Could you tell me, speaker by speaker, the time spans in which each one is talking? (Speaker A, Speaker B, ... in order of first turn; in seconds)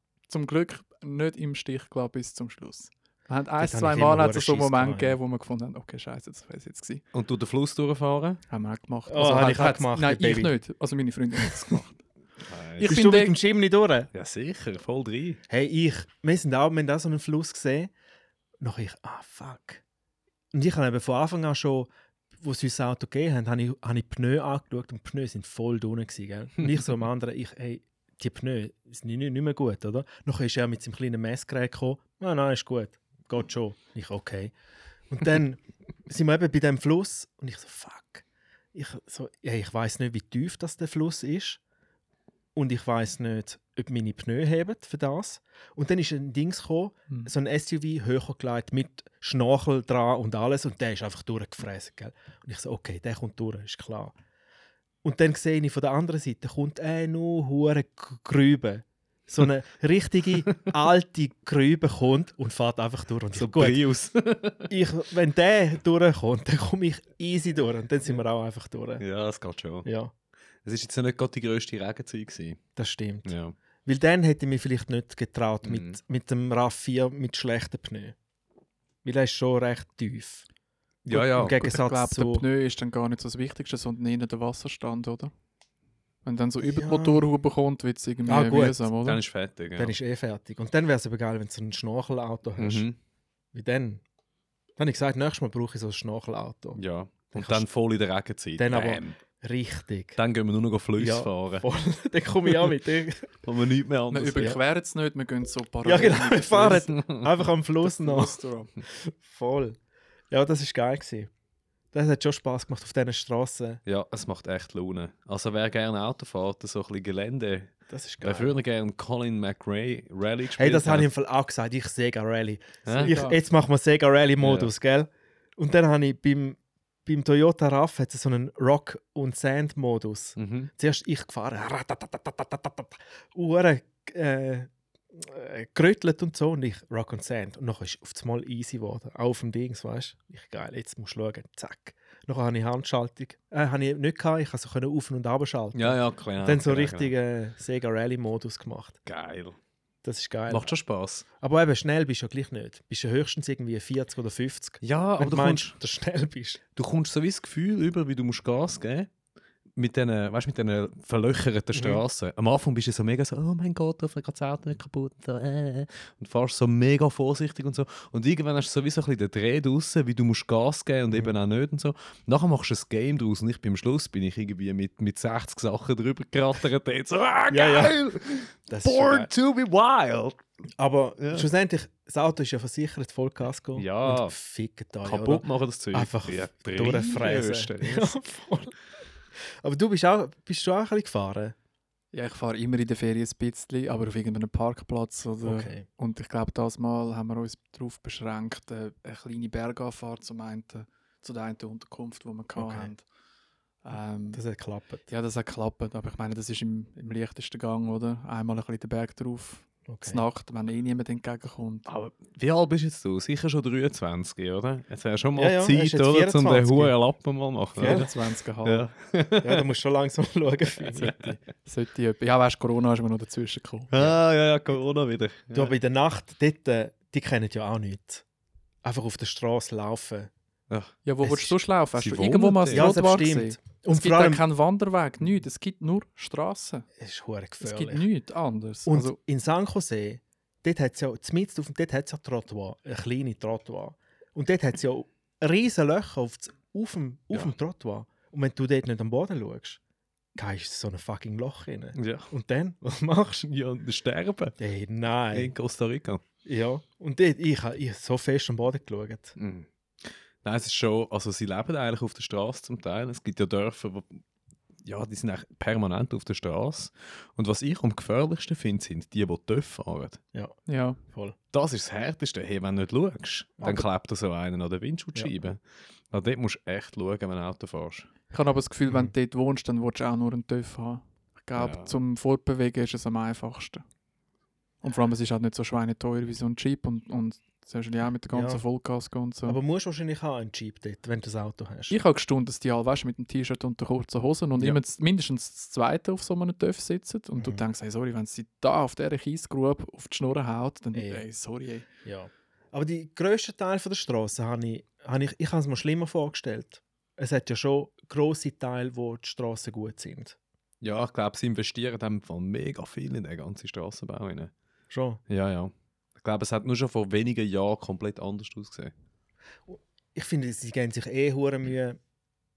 Speaker A: 0.3-7.0, 8.5-12.0, 12.8-13.4, 81.6-85.3, 86.2-89.2, 104.1-106.9, 107.8-108.7, 123.0-123.4, 192.1-203.0, 203.8-204.4, 205.1-211.8, 217.8-218.9, 221.0-223.9, 231.0-236.9, 237.6-239.2, 270.7-271.0, 278.3-283.8, 284.8-289.6, 291.9-301.9
Speaker B: 3.6-5.2, 9.1-10.5, 12.8-14.1, 15.5-17.9, 18.6-19.8, 20.5-21.9, 22.4-34.5, 35.1-41.6, 42.5-54.1, 55.0-63.8, 64.7-69.0, 69.8-70.1, 72.8-73.3, 73.8-78.1, 79.0-80.5, 81.1-82.4, 86.6-87.2, 88.3-88.9, 89.8-92.9, 93.5-94.0, 94.8-96.8, 97.3-97.7, 98.6-100.2, 101.0-103.3, 105.8-109.8, 110.3-111.3, 111.9-113.8, 117.9-118.6, 120.6-149.0, 150.0-150.7, 151.4-156.6, 161.7-162.0, 177.5-178.1, 178.7-179.3, 180.8-188.8, 189.4-191.5, 195.4-195.8, 202.6-202.9, 204.3-205.1, 209.9-210.2, 215.3-216.9, 217.8-218.1, 219.4-221.1, 225.5-228.2, 228.8-230.3, 231.2-231.5, 232.7-234.4, 237.0-238.0, 238.9-249.8, 250.3-253.4, 254.6-255.5, 256.4-259.4, 271.1-271.3, 273.6-273.9, 288.3-288.6, 289.4-291.9, 300.9-301.2, 302.0-310.4, 314.9-315.2, 319.7-322.0
Speaker C: 7.1-8.4, 12.4-12.9, 14.1-15.4, 63.3-64.7, 69.0-69.9, 70.6-72.6, 73.2-73.5, 75.6-76.0, 81.0-81.6, 89.0-89.9, 92.6-93.0, 96.8-99.2, 100.2-101.7, 103.4-104.5, 106.6-107.3, 113.8-121.1, 122.8-123.1, 124.4-124.7, 130.4-130.7, 145.7-147.1, 149.1-149.6, 150.5-151.2, 154.8-155.8, 156.8-159.1, 159.8-180.4, 181.2-181.4, 183.8-184.3, 185.0-188.2, 211.8-218.1, 218.6-219.6, 223.9-225.7, 231.9-232.9, 251.9-252.3, 253.4-254.6, 255.3-256.2, 259.4-264.2, 264.8-270.2, 271.5-278.1, 281.6-281.9, 310.8-314.5, 315.3-318.9